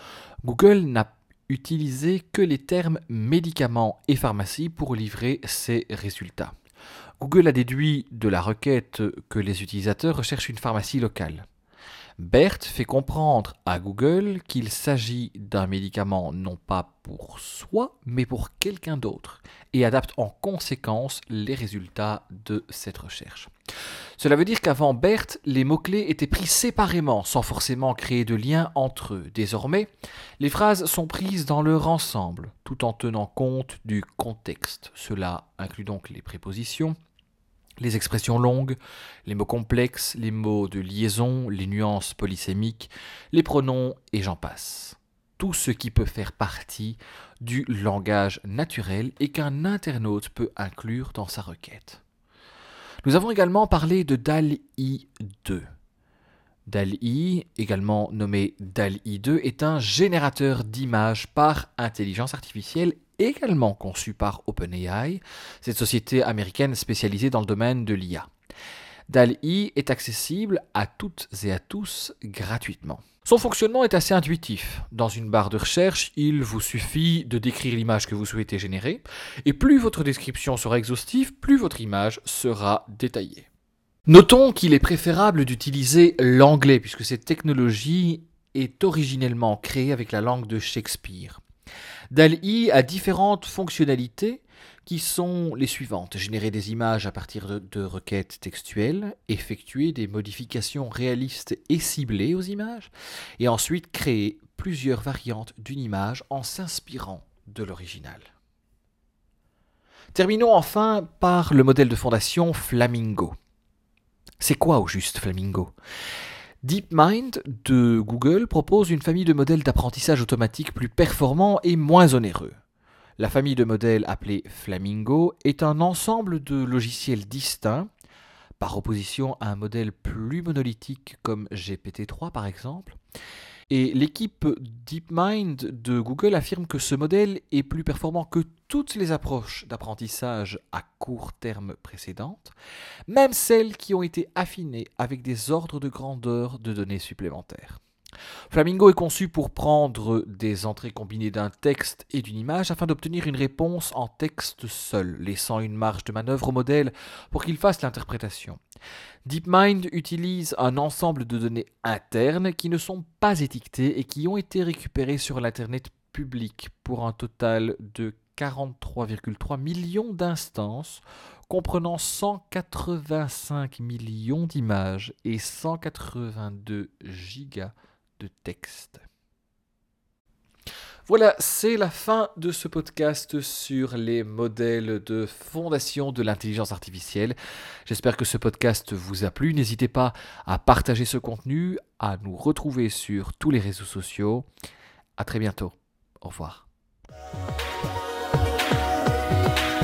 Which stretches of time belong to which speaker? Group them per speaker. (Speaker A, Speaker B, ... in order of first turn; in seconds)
Speaker A: 0.4-6.5, 7.2-11.4, 12.2-23.5, 24.2-37.0, 37.8-52.0, 53.0-55.7, 56.7-68.3, 69.1-83.5, 84.1-91.4, 92.1-108.3, 110.1-113.3, 114.4-115.7, 116.6-122.6, 123.2-127.9, 128.6-133.0, 133.7-142.5, 143.1-147.8, 148.5-158.6, 159.2-179.1, 181.1-194.5, 195.2-196.7